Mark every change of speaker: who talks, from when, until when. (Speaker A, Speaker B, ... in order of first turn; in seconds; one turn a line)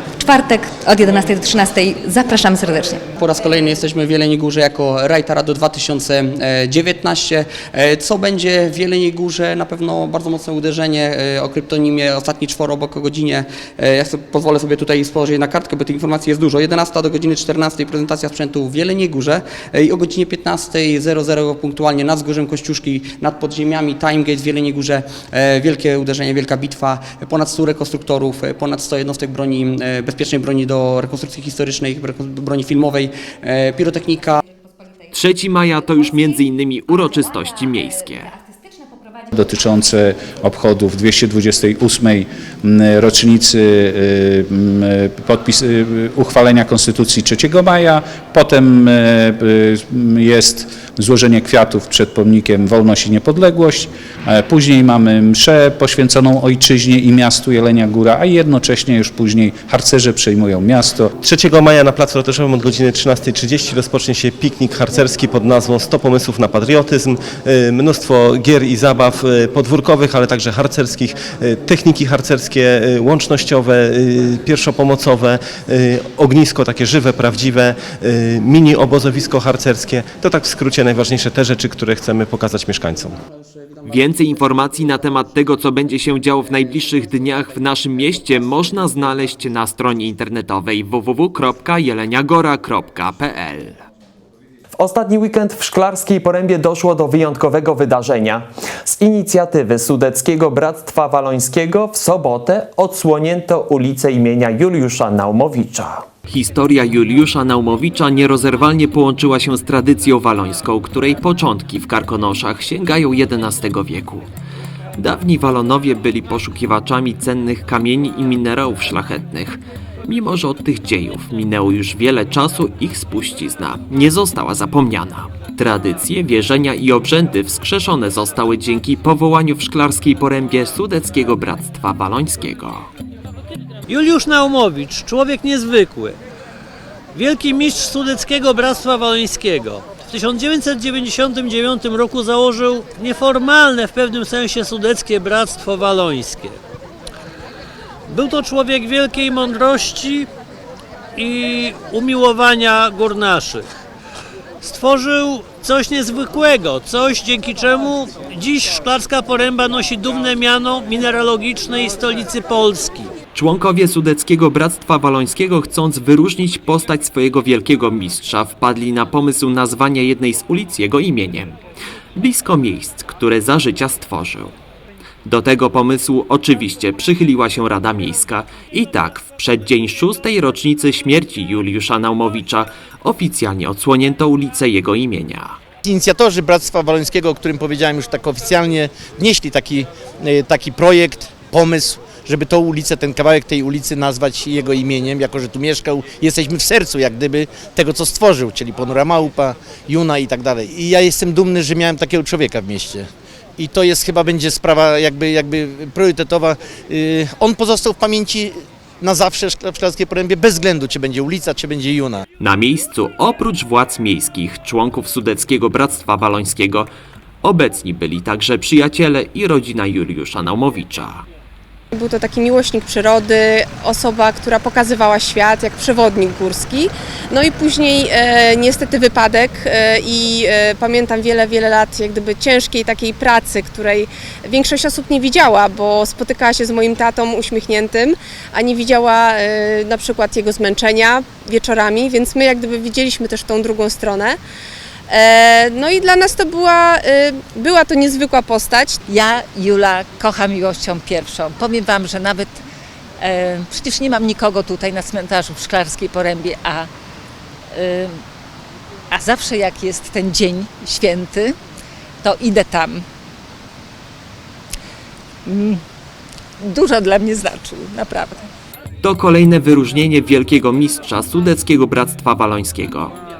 Speaker A: 0.2-3.0
Speaker B: 3.2-34.4
Speaker C: 35.1-38.3
Speaker D: 39.3-61.1
Speaker E: 61.2-83.2
Speaker C: 83.8-93.8
Speaker F: 94.8-106.0
Speaker C: 106.3-114.2
Speaker C: 115.0-132.9
Speaker G: 133.9-136.2
Speaker G: 137.1-146.6
Speaker G: 148.1-150.3
Speaker G: 151.2-153.7
Speaker G: 154.6-163.1
Speaker C: 163.3-171.6
Speaker C: 172.2-174.5
Speaker C: 175.2-185.6
Speaker H: 185.8-212.2
Speaker C: 212.4-216.9
Speaker C: 217.4-221.2
Speaker I: 221.9-244.4
Speaker I: 245.1-249.0
Speaker J: 249.1-252.6
Speaker J: 253.2-256.9
Speaker J: 257.7-258.2
Speaker J: 259.1-261.6
Speaker J: 262.2-263.1
Speaker J: 265.5-265.8
Speaker J: 266.6-268.5
Speaker C: 269.0-273.2